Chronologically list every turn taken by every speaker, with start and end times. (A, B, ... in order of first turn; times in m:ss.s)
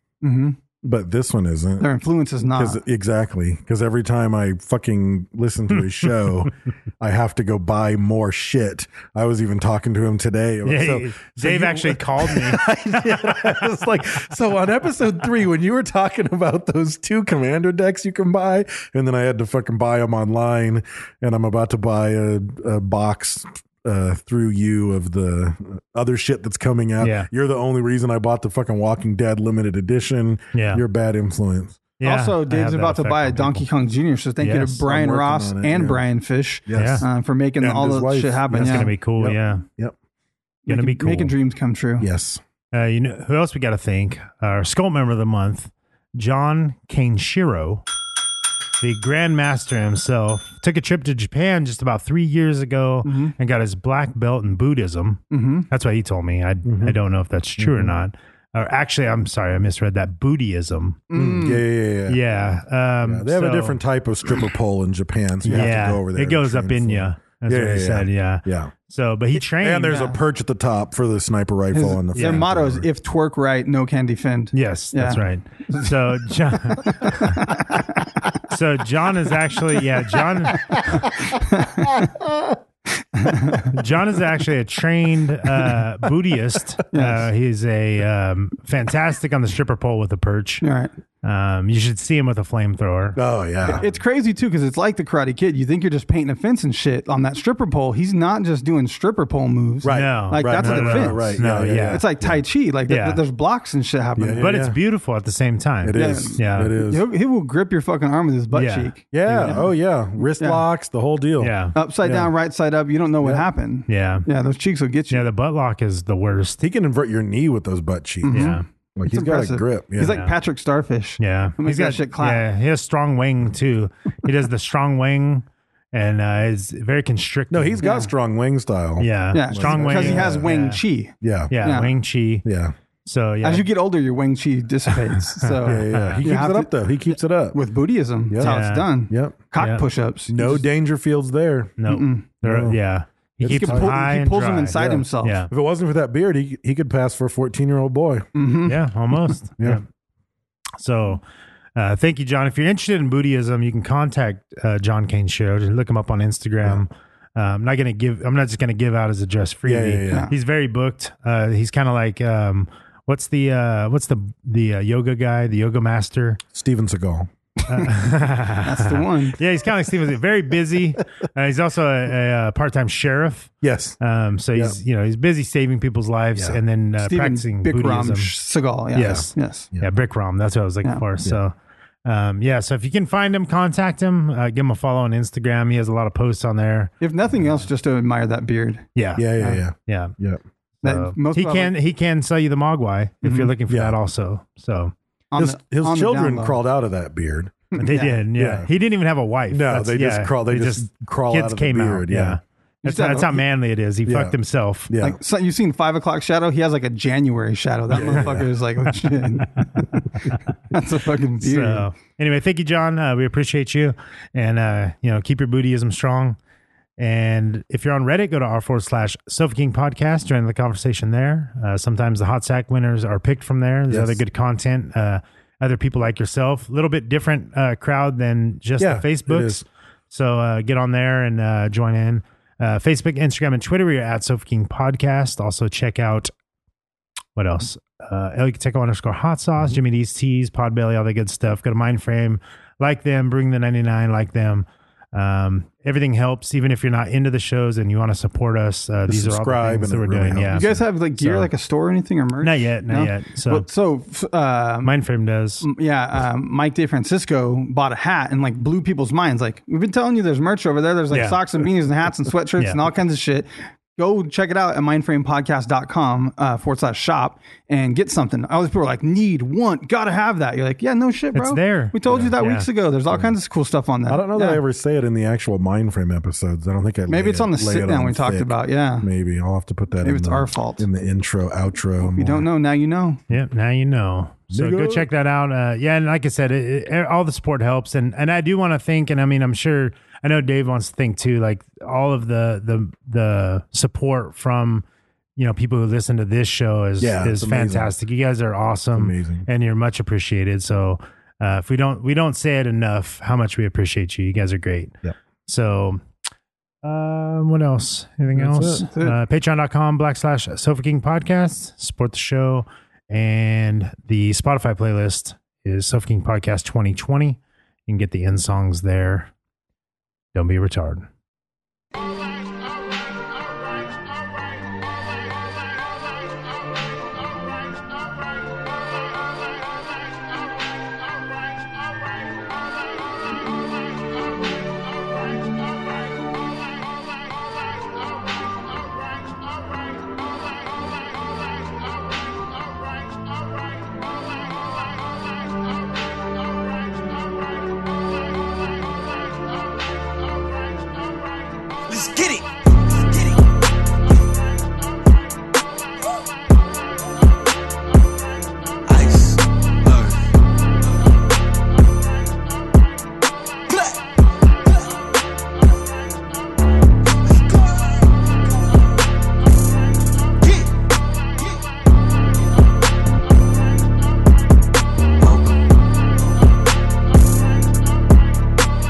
0:00.2-0:00.6 A
0:00.8-0:01.9 B
0:01.8-0:02.8 A
0:02.6-0:31.8 B
0:10.6-0:13.6 C
0:27.0-0:27.3 C
0:30.5-0:30.8 C
0:32.0-0:33.7 C
0:32.0-0:38.9 A
0:34.4-0:34.8 C
0:34.8-0:36.0 B
0:36.7-0:37.1 B
0:36.7-0:37.0 C
0:37.6-0:40.0 B
0:38.5-0:39.6 C
0:40.7-0:42.1 A
0:40.7-0:41.3 C
0:42.0-0:42.4 B
0:42.7-0:47.8 C
0:48.8-1:01.0 C
0:53.0-0:53.3 A
0:55.3-0:55.7 A
0:56.6-0:57.0 B
0:57.6-0:58.0 B
1:01.1-1:01.6 A
1:01.1-1:02.2 B
1:02.1-1:03.8 C
1:03.0-1:08.7 B
1:05.5-1:10.0 C
1:09.4-1:12.9 B
1:09.9-1:10.2 A
1:11.7-1:15.9 A
1:12.2-1:12.4 C
1:14.5-1:17.5 C
1:16.5-1:17.8 A
1:18.5-1:21.1 C
1:21.1-1:22.2 A
1:23.1-1:23.7 A
1:23.7-1:30.6 C
1:26.9-1:27.2 A
1:30.6-1:30.9 A
1:31.2-1:33.8 C
1:33.2-1:33.8 B
1:33.7-1:41.4 A
1:39.8-1:42.4 B
1:39.9-1:42.0 C
1:41.9-1:44.5 A
1:42.9-1:43.2 C
1:44.2-1:44.8 B
1:44.4-1:46.8 C
1:45.8-1:47.0 B
1:46.0-1:49.6 A
1:48.5-1:49.6 C
1:49.1-1:52.3 B
1:50.4-1:50.6 A
1:51.4-1:51.8 C
1:51.8-1:55.2 A
1:53.9-1:54.3 C
1:55.1-1:56.6 C
1:56.6-2:00.2 B
1:58.2-2:02.4 A
1:58.3-1:58.6 C
2:00.0-2:00.3 C
2:01.2-2:07.8 C
2:07.5-2:10.5 B
2:07.8-2:08.1 A
2:09.0-2:10.8 C
2:09.3-2:12.0 A
2:11.2-2:11.5 B
2:11.5-2:12.4 C
2:12.4-2:12.7 B
2:13.0-2:13.7 C
2:13.4-2:20.6 A
2:15.6-2:16.2 C
2:15.6-2:17.6 B
2:18.3-2:18.6 B
2:18.4-2:18.9 C
2:19.1-2:19.4 B
2:19.6-2:19.8 C
2:20.3-2:21.8 B
2:21.8-2:25.5 C
2:21.9-2:22.3 A
2:22.4-2:22.8 B
2:23.4-2:24.0 B
2:23.5-2:25.4 A
2:24.8-2:28.3 B
2:28.4-2:28.8 A
2:28.7-2:29.8 C
2:30.8-2:31.2 C
2:31.8-2:46.4 C
2:39.7-2:40.3 B
2:46.5-2:47.3 B
2:47.7-2:58.3 C
2:48.6-2:49.4 A
2:53.6-2:54.0 B
2:57.0-2:59.7 A
2:59.0-3:01.5 C
3:02.0-3:06.9 C
3:07.0-3:08.8 A
3:09.0-3:10.2 C
3:09.2-3:10.4 B
3:10.8-3:11.7 A
3:10.8-3:14.9 C
3:13.2-3:13.5 A
3:13.7-3:14.0 B
3:15.3-3:16.6 A
3:15.4-3:17.7 B
3:17.7-3:18.2 A
3:17.8-3:24.9 C
3:18.4-3:18.7 B
3:19.5-3:22.4 B
3:22.8-3:23.4 A
3:24.1-3:24.4 B
3:24.9-3:25.2 B
3:25.0-3:29.9 A
3:27.9-3:28.5 B
3:30.7-3:31.9 A
3:31.4-3:36.4 C
3:37.0-3:56.3 C
3:43.9-3:44.2 B
3:48.8-3:49.6 B
3:57.4-4:10.7 C
4:09.1-4:10.8 B
4:10.5-4:14.9 A
4:11.2-4:11.5 C
4:12.4-4:13.6 C
4:14.8-4:15.6 C
4:15.6-4:34.6 A
4:21.1-4:21.4 C
4:31.4-4:32.7 C
4:32.1-4:32.3 B
4:34.1-4:42.5 B
4:37.1-4:39.1 A
4:40.0-4:40.8 A
4:42.0-4:43.2 A
4:43.3-4:54.8 C
4:44.5-4:45.1 B
4:55.4-5:06.0 C
4:57.0-4:57.9 B
4:58.9-4:59.5 B
5:06.8-5:19.3 C
5:08.4-5:08.8 B
5:08.6-5:09.2 A
5:20.3-5:21.1 C
5:51.9-5:53.4 D
5:58.9-6:00.3 D
6:03.7-6:04.0 D
6:07.2-6:08.2 D
6:10.4-6:10.8 D
6:15.2-6:15.6 D